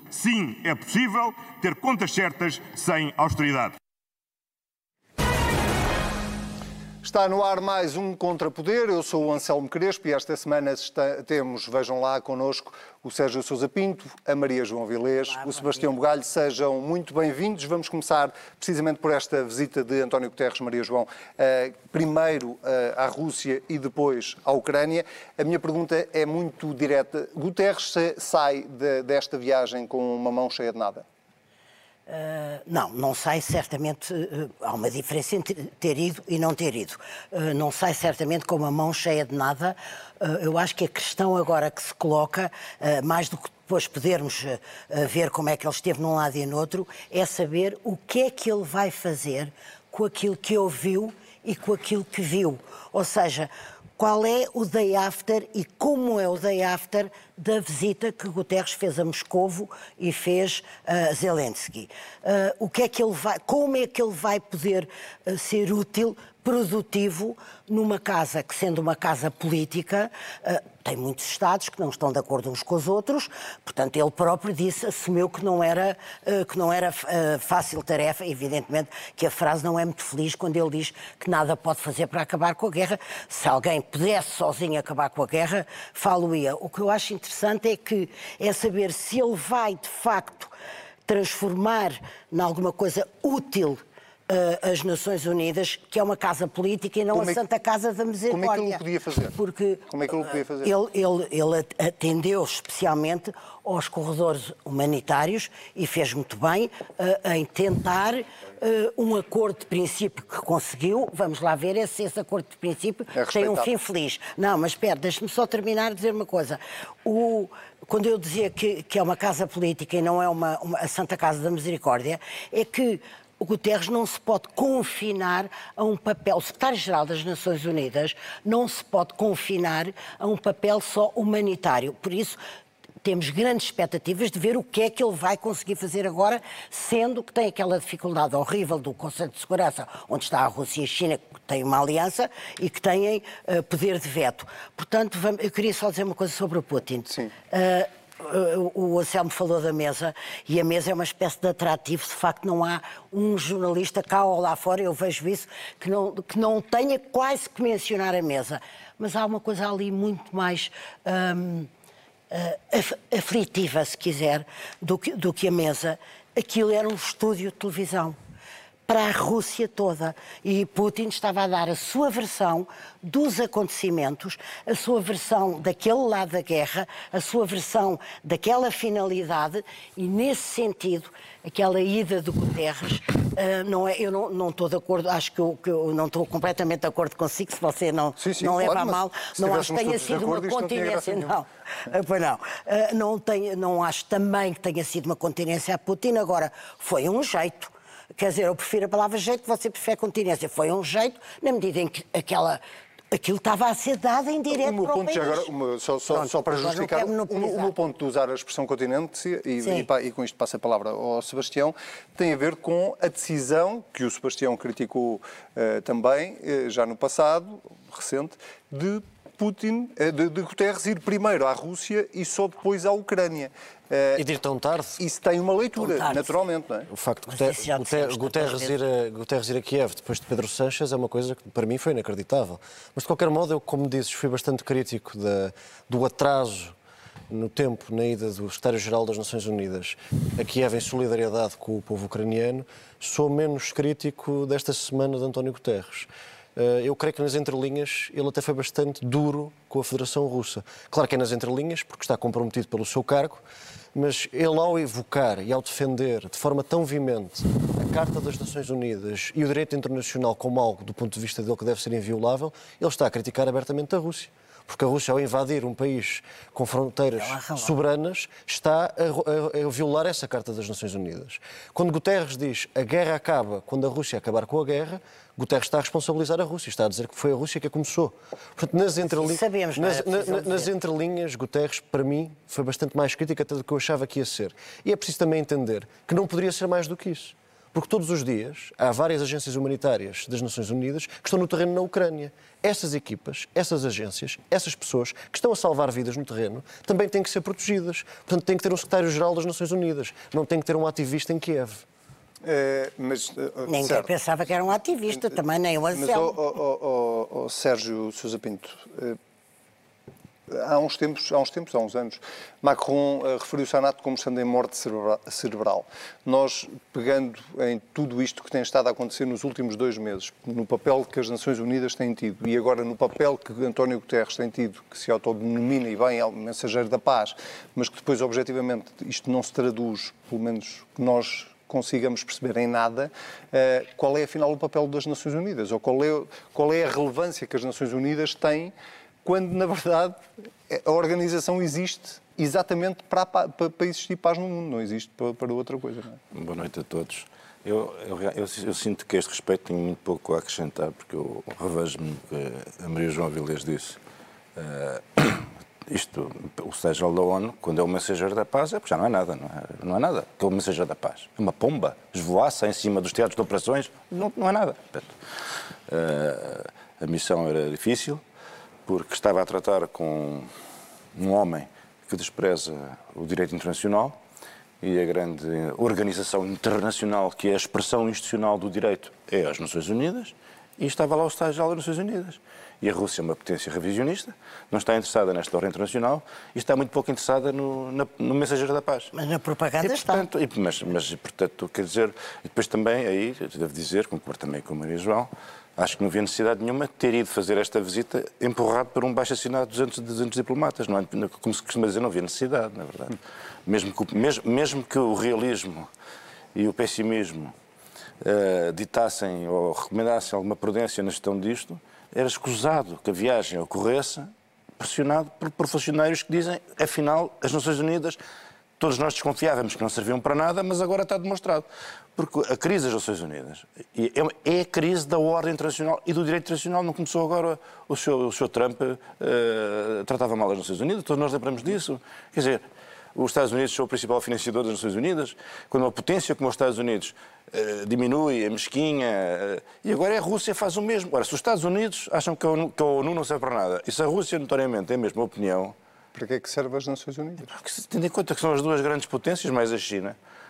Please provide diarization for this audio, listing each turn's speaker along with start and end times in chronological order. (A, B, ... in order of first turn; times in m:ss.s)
0:00.1-0:03.8 A
0:07.0-0:31.0 B
0:32.1-1:30.5 C
1:31.1-1:38.8 C
1:37.1-1:37.4 B
1:38.3-1:39.4 B
1:39.3-2:12.4 C
1:39.9-1:40.7 B
1:53.1-1:53.7 B
2:13.0-2:41.7 C
2:42.3-2:48.2 C
2:48.9-3:22.6 C
3:08.2-3:11.3 B
3:23.1-3:25.5 C
3:24.5-3:44.2 B
3:26.1-3:27.7 C
3:29.6-3:29.9 C
3:44.1-3:45.0 D
3:45.0-3:46.9 B
3:45.8-3:46.4 C
3:46.9-3:56.7 D
3:47.3-3:48.7 C
3:57.3-5:01.8 D
4:27.1-4:27.7 C
4:39.1-4:40.7 C
5:02.4-5:04.1 B
5:03.7-5:06.3 C
5:05.9-5:09.2 B
5:10.5-5:38.7 B
5:39.2-5:46.2 B
5:46.3-5:54.0 E
5:54.6-6:05.1 E
6:05.9-6:08.2 E
6:08.9-6:10.5 E
6:11.1-6:14.2 E
6:14.8-6:29.1 E
6:29.1-6:30.2 C
6:29.8-6:45.9 E
6:46.5-6:47.5 E
6:48.2-6:58.2 E
6:58.8-7:12.6 E
7:13.1-7:25.7 E
7:26.1-7:27.5 B
7:27.5-7:30.2 E